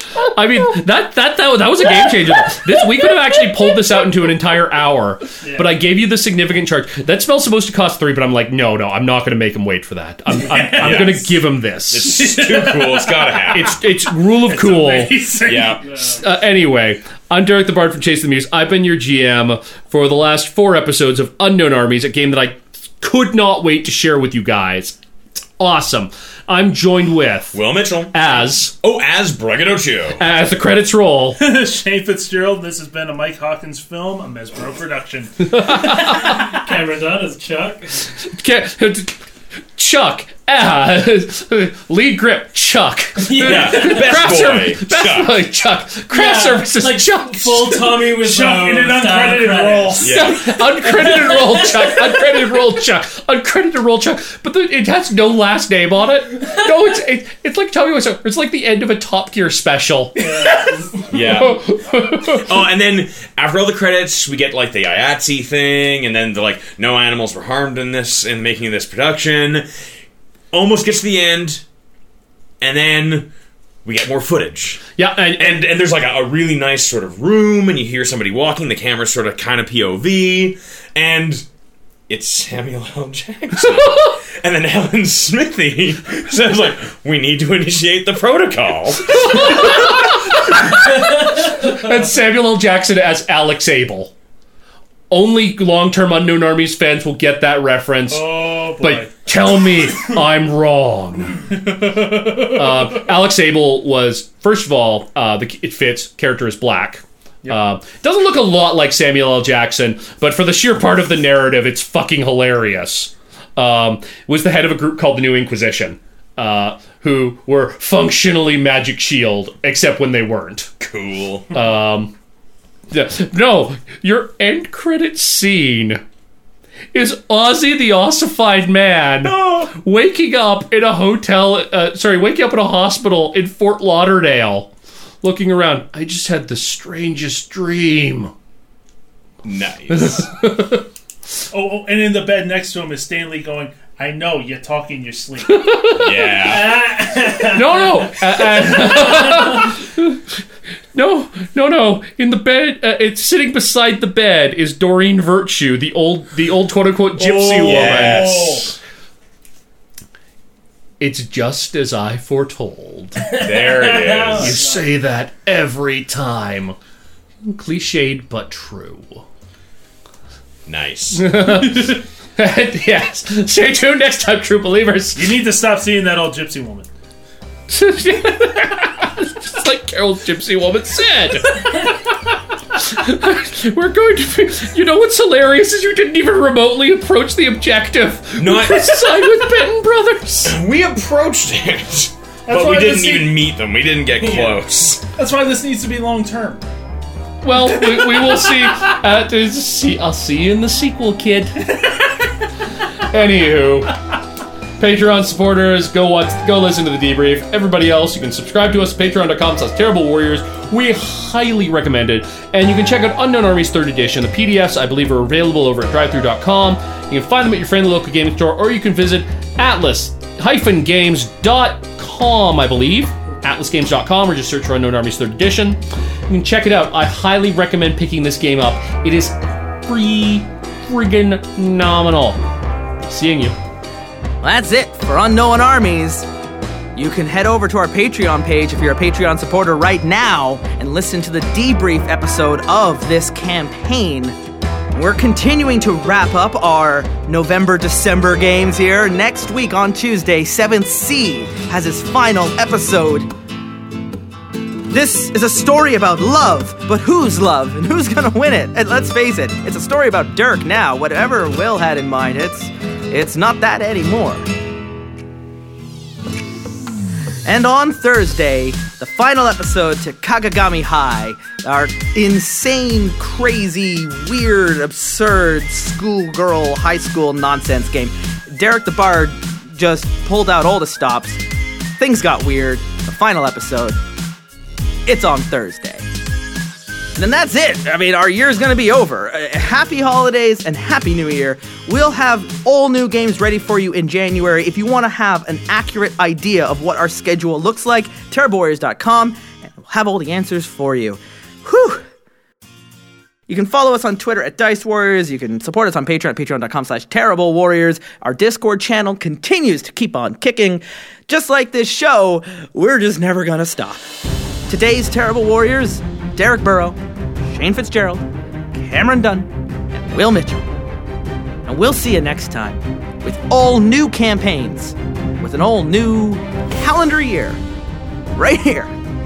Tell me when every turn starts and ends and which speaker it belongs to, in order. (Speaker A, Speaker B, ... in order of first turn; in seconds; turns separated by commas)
Speaker A: 0.2-12.2, Speaker B: 5.4-5.8, Speaker B: 10.4-11.4, Speaker C: 10.8-11.2, Speaker C: 11.9-13.8, Speaker B: 12.0-13.7, Speaker A: 13.5-15.2, Speaker B: 14.4-16.2, Speaker C: 15.4-15.8, Speaker A: 16.1-25.0, Speaker A: 25.6-28.7, Speaker C: 27.5-30.2, Speaker A: 30.2-31.4, Speaker B: 31.4-36.1, Speaker A: 35.4-36.5, Speaker D: 35.8-38.0, Speaker A: 38.3-39.2, Speaker A: 39.8-48.0, Speaker D: 43.2-44.1, Speaker C: 43.4-45.4, Speaker D: 46.1-50.1, Speaker B: 48.1-50.2, Speaker C: 50.0-50.5, Speaker A: 50.0-62.5, Speaker D: 50.8-52.6, Speaker D: 60.2-61.2, Speaker C: 61.1-61.6, Speaker C: 62.2-69.7, Speaker C: 70.5-71.6, Speaker C: 72.6-73.3, Speaker C: 73.8-81.5, Speaker A: 75.0-75.6, Speaker C: 82.1-89.9, Speaker A: 83.6-84.2, Speaker A: 89.1-94.1, Speaker A: 95.1-101.5, Speaker B: 98.1-99.2, Speaker B: 101.5-103.0, Speaker A: 102.4-120.7, Speaker C: 120.8-121.5, Speaker A: 121.5-122.1, Speaker A: 122.9-126.0, Speaker A: 126.9-134.7, Speaker C: 129.2-129.7, Speaker A: 135.2-138.3, Speaker C: 139.4-140.3, Speaker A: 139.9-140.8, Speaker B: 141.5-145.8, Speaker A: 145.4-146.6, Speaker C: 145.9-146.8, Speaker D: 146.4-147.8, Speaker B: 147.2-147.6, Speaker A: 147.5-150.2, Speaker D: 148.6-149.6, Speaker A: 150.9-158.7, Speaker B: 157.2-158.8, Speaker C: 157.6-158.7, Speaker A: 161.0-163.2, Speaker D: 163.2-164.8, Speaker C: 163.4-164.6, Speaker A: 164.3-166.8, Speaker A: 167.4-169.2, Speaker C: 170.7-171.5, Speaker A: 171.2-175.4, Speaker B: 175.2-176.9, Speaker A: 177.7-190.6, Speaker C: 188.4-189.3, Speaker C: 190.4-195.0, Speaker B: 192.5-193.4, Speaker D: 194.2-194.6, Speaker B: 195.2-196.6, Speaker A: 197.4-201.8, Speaker A: 203.0-204.0, Speaker A: 204.8-232.4, Speaker A: 233.0-233.6, Speaker E: 234.4-236.3, Speaker E: 236.9-244.4, Speaker E: 244.9-253.3, Speaker E: 254.9-264.4, Speaker E: 267.4-281.4, Speaker E: 282.0-284.0, Speaker E: 285.1-286.1, Speaker E: 287.1-302.0, Speaker E: 303.5-314.1, Speaker E: 314.7-320.6, Speaker E: 321.7-327.6, Speaker E: 328.4-328.9